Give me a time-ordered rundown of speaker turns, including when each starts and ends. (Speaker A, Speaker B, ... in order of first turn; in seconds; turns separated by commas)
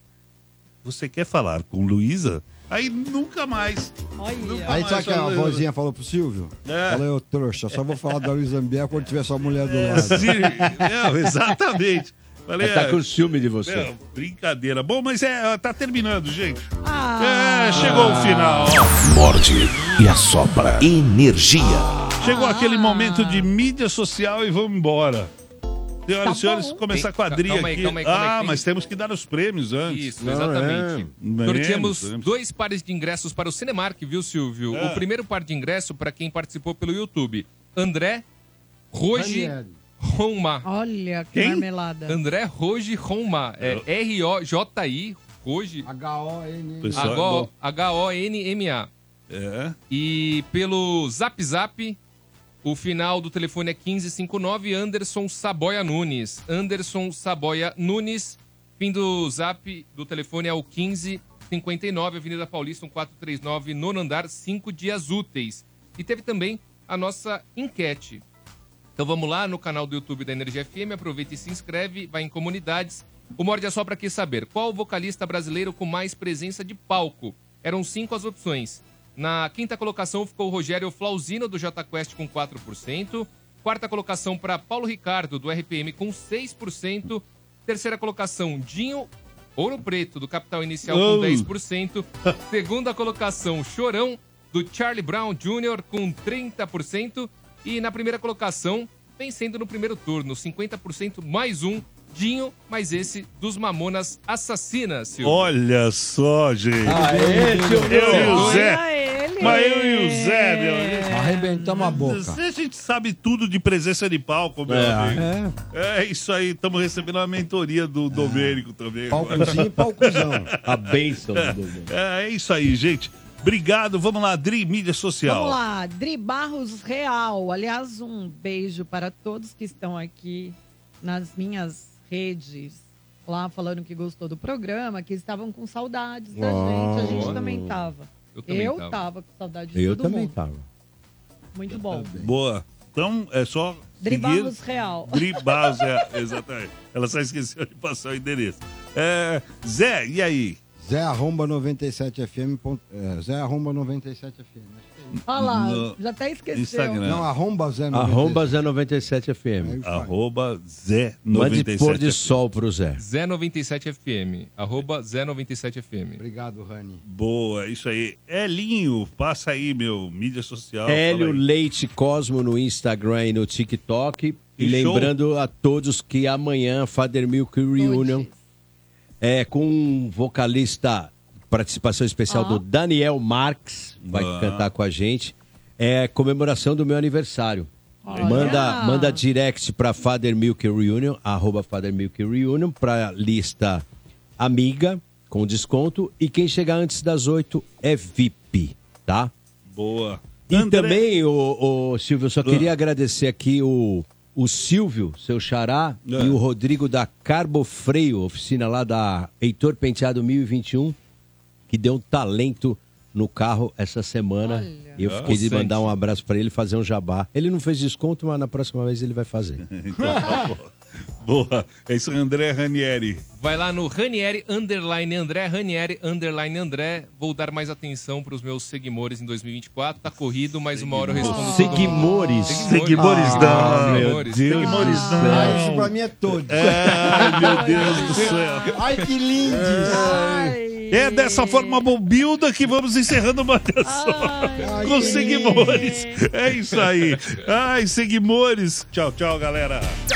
Speaker A: 0.8-5.6, Speaker B: 4.2-4.9, Speaker C: 4.7-10.4, Speaker A: 6.7-7.1, Speaker A: 9.5-13.0, Speaker D: 9.9-11.5, Speaker D: 12.6-13.9, Speaker A: 13.7-18.9, Speaker B: 16.8-18.2, Speaker D: 17.8-18.5, Speaker E: 18.9-22.1, Speaker B: 22.2-23.5, Speaker A: 22.2-25.3, Speaker A: 26.1-30.1, Speaker B: 26.2-26.9, Speaker F: 26.9-28.6, Speaker F: 29.9-38.3, Speaker D: 30.2-31.1, Speaker A: 31.2-32.3, Speaker A: 34.7-35.0, Speaker F: 38.9-40.6, Speaker C: 39.1-39.7, Speaker B: 40.6-42.2, Speaker A: 41.3-41.7, Speaker F: 42.1-45.9, Speaker C: 45.8-47.2, Speaker A: 46.8-47.5, Speaker F: 46.9-48.9, Speaker A: 49.3-49.8, Speaker F: 49.9-52.0, Speaker F: 52.6-68.2, Speaker F: 69.0-105.5, Speaker A: 90.8-91.5, Speaker A: 105.2-107.1, Speaker C: 106.8-108.4, Speaker D: 106.8-108.5, Speaker A: 107.9-108.8, Speaker B: 108.2-112.0, Speaker F: 108.4-108.7, Speaker A: 109.4-120.6, Speaker C: 111.1-112.4, Speaker D: 114.7-115.5, Speaker C: 118.1-118.5, Speaker C: 119.1-120.5, Speaker D: 120.6-121.9, Speaker A: 121.4-125.6, Speaker B: 125.2-140.3, Speaker D: 136.3-137.9, Speaker F: 137.1-137.3, Speaker F: 138.3-139.0, Speaker D: 139.8-140.7, Speaker B: 141.5-142.1, Speaker C: 141.7-142.3, Speaker A: 142.2-150.6, Speaker B: 144.0-146.0, Speaker C: 150.8-155.2, Speaker A: 155.1-156.0, Speaker B: 155.3-157.0, Speaker A: 156.5-157.3, Speaker C: 157.0-158.5, Speaker D: 157.9-159.8, Speaker C: 159.6-160.2, Speaker A: 159.8-162.3, Speaker D: 161.3-163.0, Speaker F: 163.0-166.2, Speaker C: 166.2-167.0, Speaker A: 167.1-171.4, Speaker D: 170.9-178.3, Speaker A: 174.6-175.1, Speaker B: 177.8-178.4, Speaker D: 179.2-193.9, Speaker B: 182.3-182.6, Speaker A: 184.0-184.7, Speaker B: 188.1-189.2, Speaker A: 188.2-188.7, Speaker D: 194.4-199.3, Speaker A: 199.7-201.0, Speaker D: 200.5-211.0, Speaker A: 202.4-202.7, Speaker A: 206.1-206.4, Speaker D: 211.7-219.6, Speaker B: 214.4-215.1, Speaker A: 215.0-215.3, Speaker F: 215.3-215.9, Speaker A: 219.6-223.2, Speaker C: 220.0-220.4, Speaker F: 223.4-234.7, Speaker A: 230.7-231.7, Speaker B: 231.2-232.6, Speaker D: 231.5-235.8, Speaker A: 232.5-235.8, Speaker B: 234.6-235.5, Speaker C: 235.3-240.3, Speaker A: 236.5-250.0, Speaker B: 237.2-238.8, Speaker B: 239.8-241.9, Speaker B: 243.8-246.2, Speaker C: 244.6-245.8